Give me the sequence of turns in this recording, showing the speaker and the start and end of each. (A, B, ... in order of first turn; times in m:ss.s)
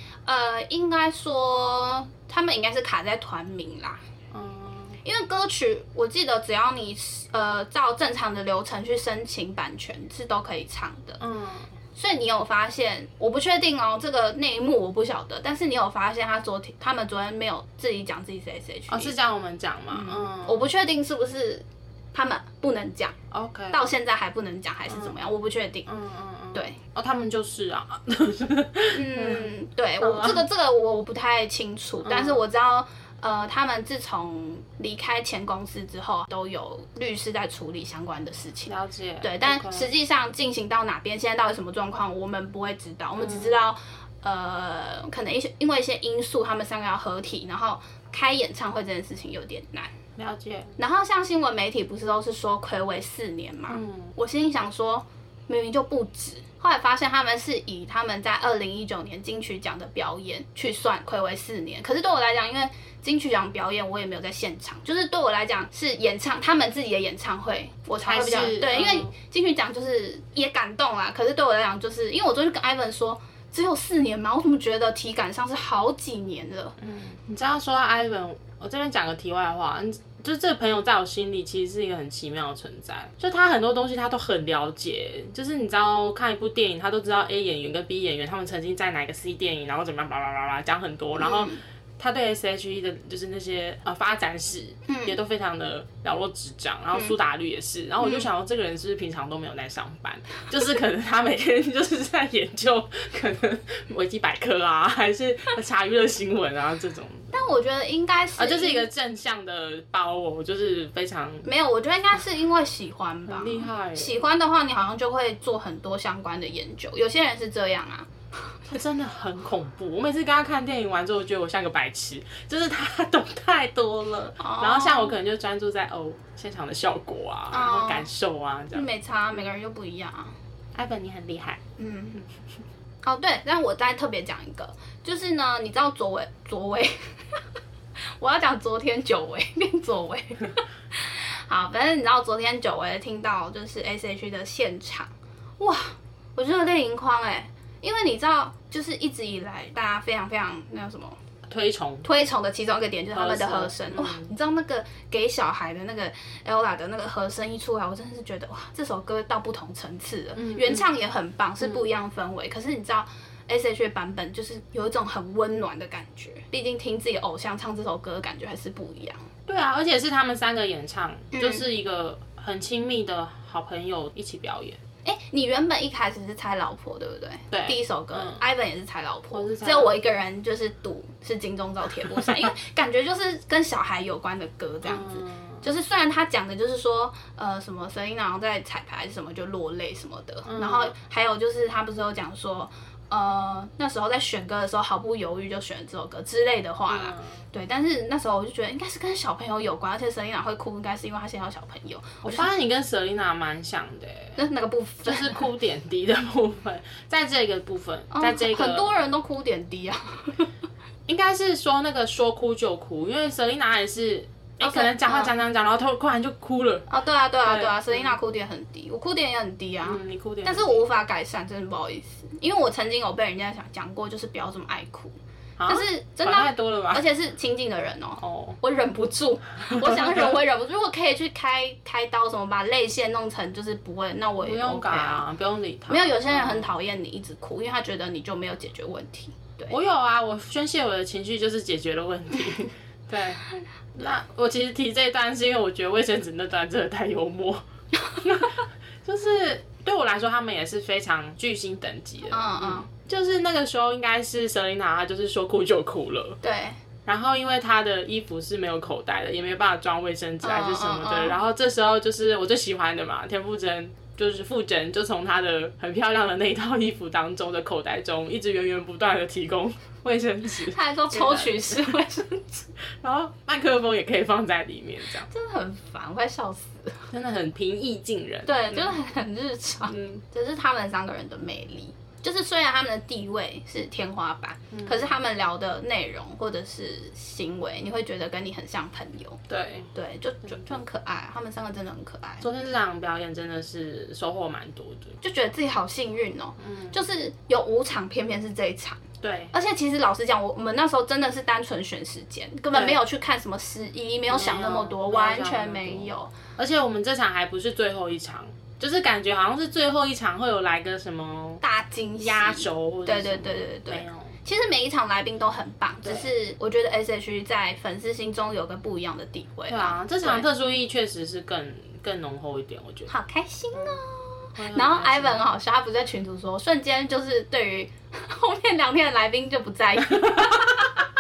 0:00.3-0:04.0 A
0:04.3-0:05.0 B
0:05.0-0:11.2 A
0:11.2-0:11.7 B
0:12.0-0:19.2 A
0:18.9-0:20.7 B
0:19.9-0:23.2 A
0:23.3-0:23.9 B
0:23.7-0:25.9 A
0:24.9-0:25.2 B
0:25.9-0:30.5 B
0:28.9-0:49.9 A
0:32.0-0:32.4 B
0:38.7-0:39.9 B
0:43.2-0:43.6 B
0:50.2-0:50.8 B
0:50.8-1:16.8 A
0:53.7-0:54.1 B
1:08.0-1:09.1 B
1:16.8-1:47.3 B
1:31.2-1:31.6 A
1:34.9-1:35.2 A
1:38.0-1:38.3 A
1:47.3-1:48.9 A
1:48.4-1:51.5 B
1:51.4-1:58.6 A
1:53.3-1:54.2 B
1:58.7-2:08.9 B
2:04.4-2:05.2 A
2:07.5-2:08.1 A
2:08.7-2:10.4 A
2:10.7-2:11.6 B
2:11.8-2:12.2 A
2:13.0-2:17.1 A
2:18.2-2:31.2 A
2:31.5-2:32.1 B
2:32.0-2:49.3 A
2:33.1-2:34.3 B
2:40.4-2:40.9 B
2:49.5-2:54.8 B
2:51.3-2:51.6 A
2:55.0-3:22.5 A
2:57.5-2:58.4 B
2:59.3-2:59.9 B
3:04.8-3:05.6 B
3:10.5-3:11.0 B
3:16.9-3:17.4 B
3:22.2-3:24.4 B
3:24.4-3:25.4 A
3:25.0-3:28.9 B
3:28.1-3:30.5 A
3:31.1-3:36.9 B
3:34.6-3:35.3 A
3:36.9-3:45.2 A
3:37.4-3:38.2 B
3:39.8-3:40.8 B
3:45.6-3:47.0 B
3:45.7-3:55.2 A
3:48.2-3:48.6 B
3:49.7-3:50.4 B
3:54.4-3:56.7 B
3:55.9-3:59.8 A
3:59.7-4:07.6 B
4:08.2-4:16.4 B
4:12.3-4:12.9 A
4:16.4-4:16.8 A
4:17.1-4:31.9 B
4:20.4-4:21.4 A
4:30.7-4:32.7 A
4:32.9-4:35.3 B
4:35.3-4:37.1 A
4:37.1-4:39.0 B
4:38.5-4:49.4 A
4:39.9-4:40.2 B
4:44.7-4:45.2 B
4:49.5-4:49.9 B
4:49.9-4:52.4 A
4:52.4-4:55.2 B
4:55.2-4:59.0 A
4:56.6-4:57.0 B
4:59.2-4:59.5 B
4:59.5-5:06.3 A
5:02.7-5:03.0 B
5:04.3-5:11.6 B
5:11.6-5:20.5 A
5:12.2-5:14.4 B
5:19.7-5:23.1 B
5:23.1-5:31.0 A
5:23.7-5:24.0 B
5:24.6-5:25.4 B
5:30.2-5:30.6 B